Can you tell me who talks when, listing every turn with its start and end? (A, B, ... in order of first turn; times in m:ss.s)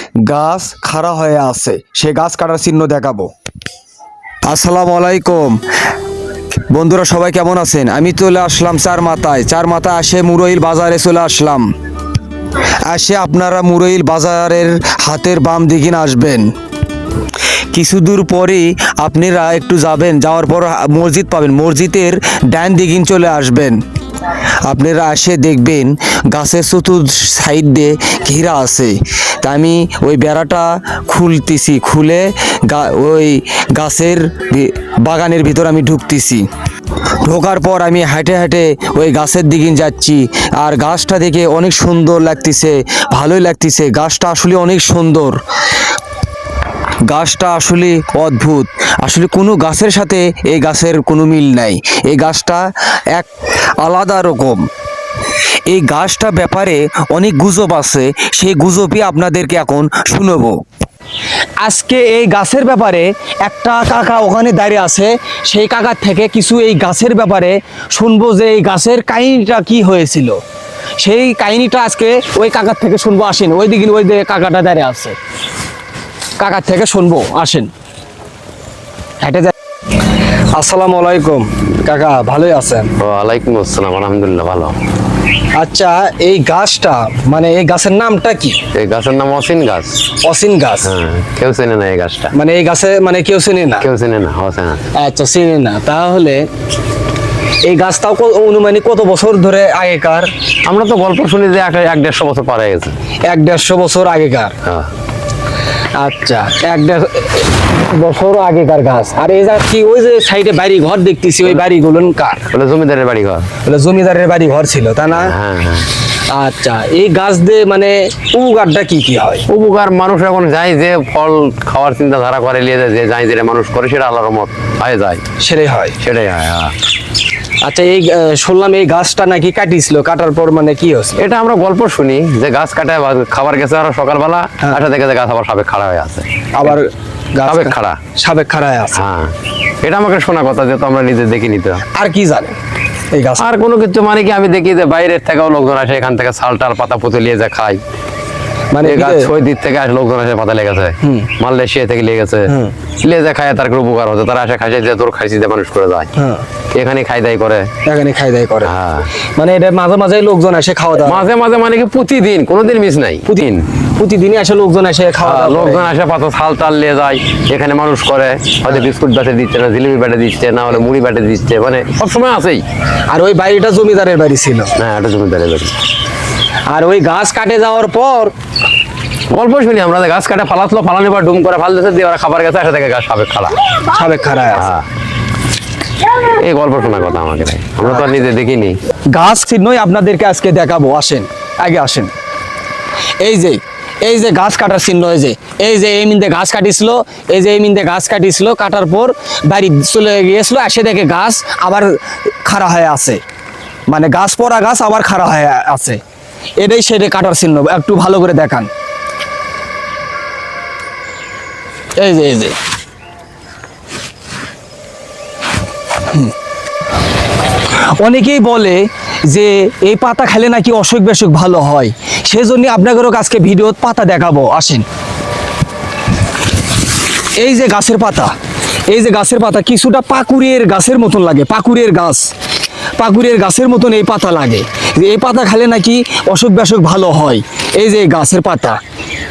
0:00.2-0:03.3 A
0:04.4-0:05.6 A
0:06.7-0:11.7 A
0:12.8-0:16.5 A
0:17.7-0:23.8 A
0:24.6-0:36.4 A
0:37.2-0:45.4 A
0:47.1-0:53.3 A
0:53.8-0:54.7 A
0:55.7-1:00.6 A
1:01.6-1:10.4 A
1:11.0-1:15.2 A
1:16.4-1:17.7 A
1:19.2-1:19.5 A
1:20.5-1:22.9 A
1:23.0-1:24.8 B
1:25.6-1:28.6 A
1:28.7-1:30.1 B
1:30.2-1:30.9 A
1:30.8-1:32.3 B
1:32.3-1:33.8 A
1:33.8-1:34.8 B
1:35.0-1:36.5 A
1:37.6-1:40.3 A
1:40.6-1:42.9 B
1:43.3-1:44.5 A
1:44.6-1:44.9 B
1:45.9-1:52.4 A
1:52.5-1:53.5 B
1:53.6-1:55.3 A
1:55.1-1:55.9 B
1:56.3-1:59.4 A
1:59.5-2:05.2 B
2:05.4-2:05.9 A
2:06.0-2:06.7 B
2:07.6-2:11.2 A
2:11.2-2:16.8 B
2:16.5-2:19.0 A
2:17.4-2:18.0 B
2:18.9-2:21.8 B
2:21.9-2:22.6 A
2:23.1-2:23.4 A
2:23.4-2:27.8 B
2:28.7-2:29.3 A
2:28.8-2:36.1 B
2:36.2-2:36.4 A
2:36.7-2:37.7 B
2:37.8-2:38.7 A
2:38.6-2:39.1 B
2:39.4-2:41.2 A
2:41.0-2:43.6 B
2:44.0-2:45.8 A
2:45.2-2:52.6 B
2:53.1-2:54.7 A
2:54.8-2:55.7 B
2:56.7-2:58.3 A
2:59.3-3:03.6 B
3:03.9-3:04.7 A
3:04.5-3:04.8 B
3:06.1-3:08.8 B
3:09.1-3:12.1 A
3:13.2-3:23.2 A
3:23.9-3:26.0 A
3:26.6-3:28.7 A
3:32.0-3:32.6 A
3:38.0-3:44.8 A
3:47.4-3:48.3 A
3:48.9-3:52.3 A
3:53.0-3:58.8 A